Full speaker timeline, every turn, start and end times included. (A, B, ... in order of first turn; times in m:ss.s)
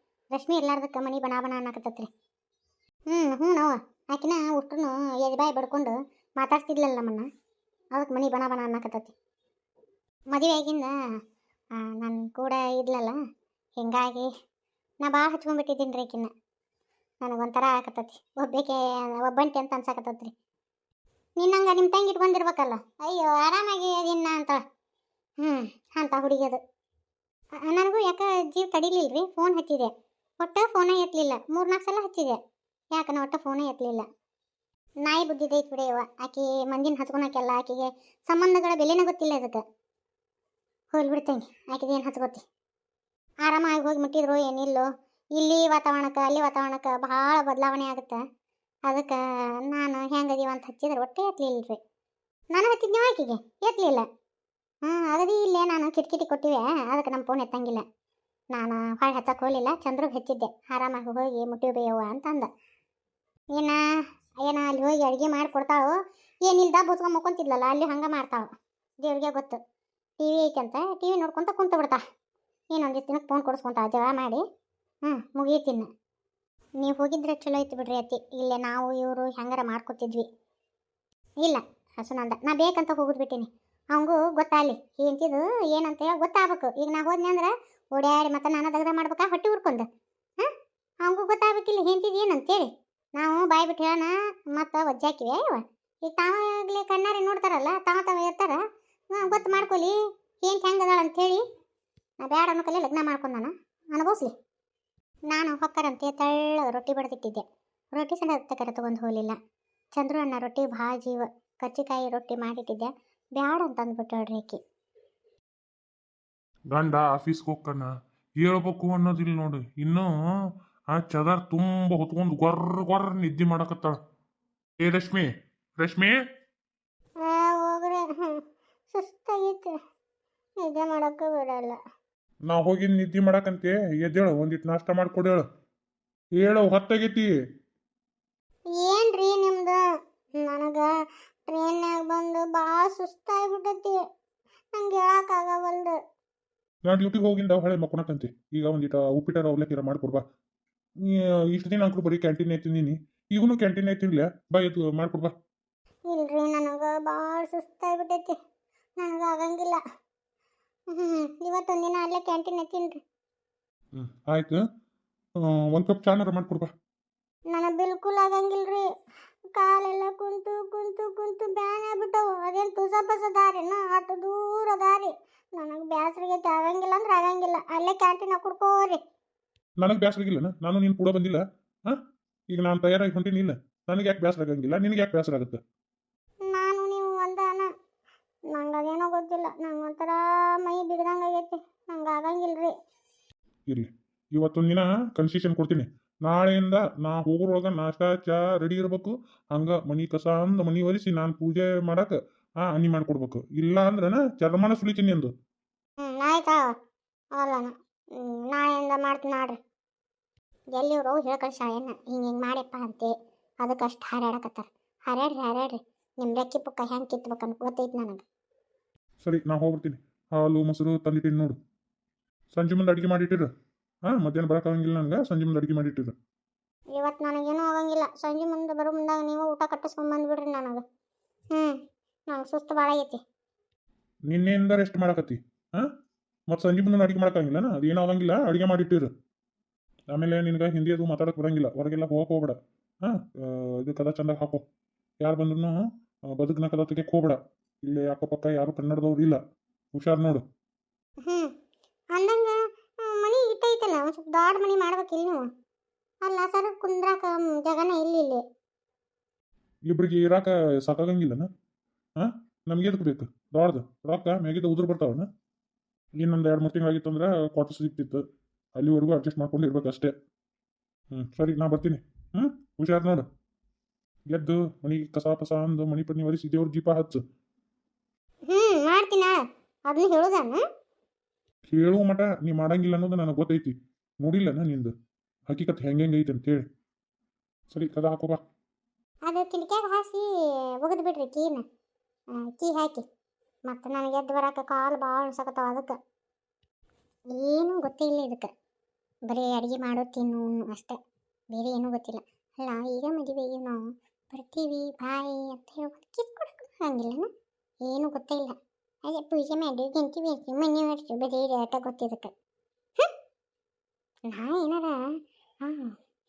0:00.3-0:02.1 A
0:03.1-0:07.3 A
0:07.9-0:09.1 A
0:10.3-0:10.9 A
0:11.8-0:13.2 A
0:13.8-0:14.3 A
0:15.0-0:16.3 A
0:17.2-0:20.3 A
0:21.4-0:24.6 A
0:25.4-0:26.6 A
0:27.6-0:32.4 A
0:32.9-0:34.0 A
0:35.0-0:39.6 A
0:40.9-0:42.4 A
0:43.4-0:48.2 A
0:48.9-0:51.8 A
0:52.5-0:54.0 A
0:54.8-0:57.8 A
0:58.5-1:02.5 A
1:03.5-1:03.8 A
1:04.4-1:08.5 A
1:09.0-1:09.6 A
1:10.2-1:12.0 A
1:12.7-1:14.4 A
1:15.0-1:15.9 A
1:16.8-1:20.2 A
1:21.4-1:29.8 A
1:31.0-1:38.6 A
1:39.1-1:41.4 A
1:42.2-1:44.3 A
1:45.3-1:49.4 A
1:50.0-1:54.6 A
1:56.7-2:00.1 B
2:00.9-2:03.9 B
2:04.8-2:06.2 B
2:07.2-2:09.7 A
2:10.6-2:11.8 A
2:12.5-2:15.4 B
2:16.4-2:17.3 B
2:18.8-2:19.8 A
2:20.4-2:20.9 A
2:21.5-2:24.0 A
2:24.8-2:26.0 A
2:26.8-2:30.2 B
2:31.0-2:35.3 B
2:36.1-2:38.3 A
2:39.0-2:39.8 A
2:40.9-2:43.0 A
2:43.9-2:44.6 B
2:45.4-2:46.7 B
2:47.5-2:48.9 A
2:49.5-2:59.0 A
2:59.8-3:02.0 B
3:02.5-3:05.6 B
3:06.5-3:07.7 A
3:08.5-3:12.7 A
3:13.7-3:25.3 B
3:26.0-3:26.6 A
3:27.3-3:29.6 A
3:30.7-3:38.2 A
3:39.2-3:41.6 B
3:42.5-3:43.5 B
3:44.1-3:46.1 B
3:46.9-3:50.8 A
3:51.5-3:53.2 A
3:54.3-3:55.9 B
3:56.5-3:59.1 B
4:00.1-4:04.6 B
4:05.2-4:05.8 B
4:06.3-4:09.4 B
4:09.9-4:10.4 B
4:12.1-4:15.4 A
4:16.2-4:18.4 A
4:19.9-4:21.5 B
4:22.2-4:25.3 B
4:26.2-4:28.2 B
4:28.8-4:30.1 B
4:31.1-4:33.2 B
4:34.3-4:37.2 B
4:38.5-4:40.6 A
4:41.7-4:44.9 B
4:45.5-4:46.6 B
4:47.7-4:48.4 B
4:49.3-4:50.2 A
4:50.8-4:51.6 A
4:52.4-4:53.0 A
4:53.7-4:55.9 A
4:57.3-4:58.5 A
4:59.3-5:01.0 A
5:01.5-5:07.3 A
5:07.8-5:08.5 A
5:09.0-5:12.3 A
5:14.3-5:14.9 A
5:15.6-5:15.9 A